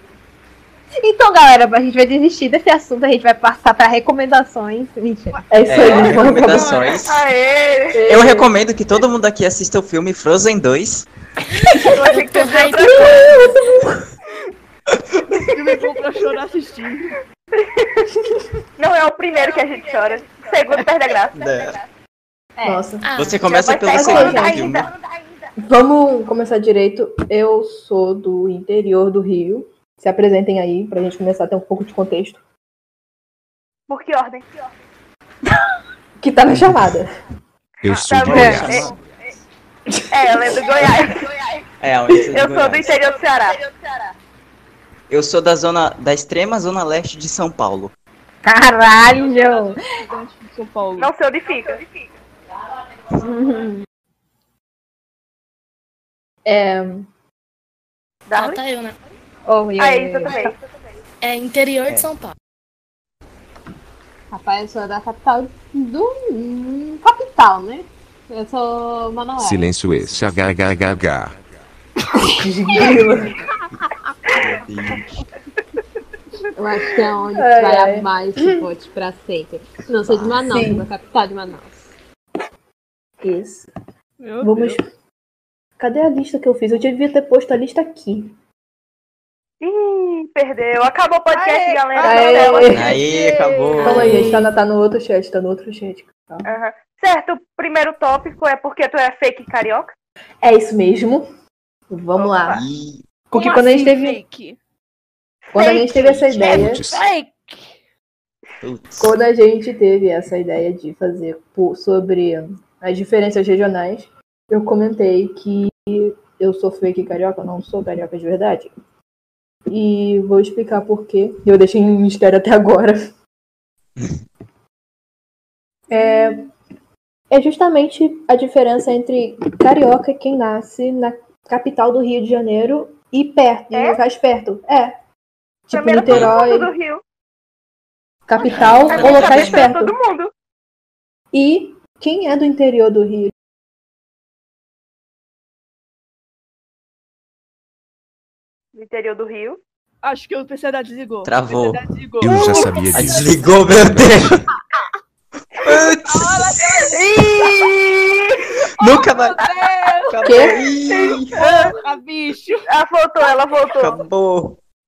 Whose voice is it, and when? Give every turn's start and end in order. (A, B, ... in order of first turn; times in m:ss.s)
0:01.0-0:05.4 A
0:05.3-0:07.0 B
0:05.5-0:06.8 C
0:05.7-0:07.2 D
0:07.0-0:08.0 E
0:07.9-0:08.5 C
0:08.1-0:11.1 D
0:11.6-0:13.7 F
0:11.7-0:13.3 B
0:11.8-0:13.4 E
0:13.3-0:13.9 C
0:14.9-0:15.6 D
0:15.5-0:17.1 B
0:17.5-0:18.2 E
0:18.8-0:21.8 E
0:19.3-0:20.9 B
0:21.3-0:21.8 D
0:22.6-0:22.8 A
0:22.6-0:23.1 C
0:23.0-0:23.6 F
0:23.2-0:24.9 D
0:23.4-0:25.1 E
0:23.9-0:24.7 C
0:25.6-0:32.4 C
0:33.9-0:34.7 E
0:36.2-0:37.1 C
0:37.8-0:38.7 G
0:38.0-0:38.9 E
0:38.2-0:39.0 D
0:38.3-0:38.6 A
0:40.1-0:41.4 E
0:40.2-0:41.0 C
0:41.8-0:43.0 D
0:42.3-0:43.6 E
0:45.1-0:47.9 D
0:48.4-0:49.8 A
0:49.0-0:51.1 B
0:51.0-0:51.9 E
0:53.2-0:53.8 A
0:56.4-0:57.1 C
0:58.3-0:58.6 E
0:58.3-0:58.9 F
0:59.5-1:00.5 A
0:59.8-1:00.5 E
1:01.2-1:02.3 F
1:04.3-1:09.8 A
1:09.4-1:11.3 G
1:12.1-1:13.4 C
1:14.2-1:15.2 D
1:16.6-1:21.8 A
1:17.3-1:18.7 C
1:20.0-1:20.4 D
1:20.4-1:20.8 C
1:23.2-1:23.7 C
1:24.2-1:24.8 B
1:24.4-1:24.8 C
1:25.8-1:28.3 C
1:29.6-1:33.0 E
1:31.3-1:34.4 B
1:32.0-1:33.0 C
1:32.7-1:34.2 D
1:33.8-1:36.5 C
1:34.0-1:34.4 A
1:36.4-1:39.9 E
1:40.4-1:41.2 C
1:41.9-1:42.6 C
1:42.1-1:42.6 E
1:42.5-1:43.0 D
1:43.3-1:44.2 C
1:43.3-1:44.6 B
1:45.5-1:46.8 C
1:45.6-1:45.8 E
1:45.6-1:47.7 B
1:46.2-1:47.1 G
1:48.6-1:49.2 D
1:49.0-1:58.7 C
1:59.7-2:03.1 C
2:05.9-2:06.5 C
2:07.3-2:14.9 C
2:13.7-2:14.0 E
2:15.7-2:16.7 C
2:15.7-2:17.0 E
2:16.0-2:16.3 D
2:18.3-2:19.9 C
2:18.4-2:19.8 D
2:18.4-2:20.3 E
2:21.3-2:23.3 C
2:28.7-2:29.6 E
2:30.0-2:32.9 B
2:31.2-2:31.9 D
2:32.2-2:34.3 G
2:32.9-2:34.4 D
2:35.6-2:37.7 D
2:36.0-2:37.7 B
2:36.9-2:38.3 E
2:38.8-2:39.4 D
2:38.8-2:40.5 B
2:40.1-2:41.4 D
2:40.2-2:40.6 C
2:40.9-2:41.8 E
2:41.3-2:42.7 B
2:42.7-2:44.0 E
2:43.2-2:43.9 B
2:43.8-2:44.6 D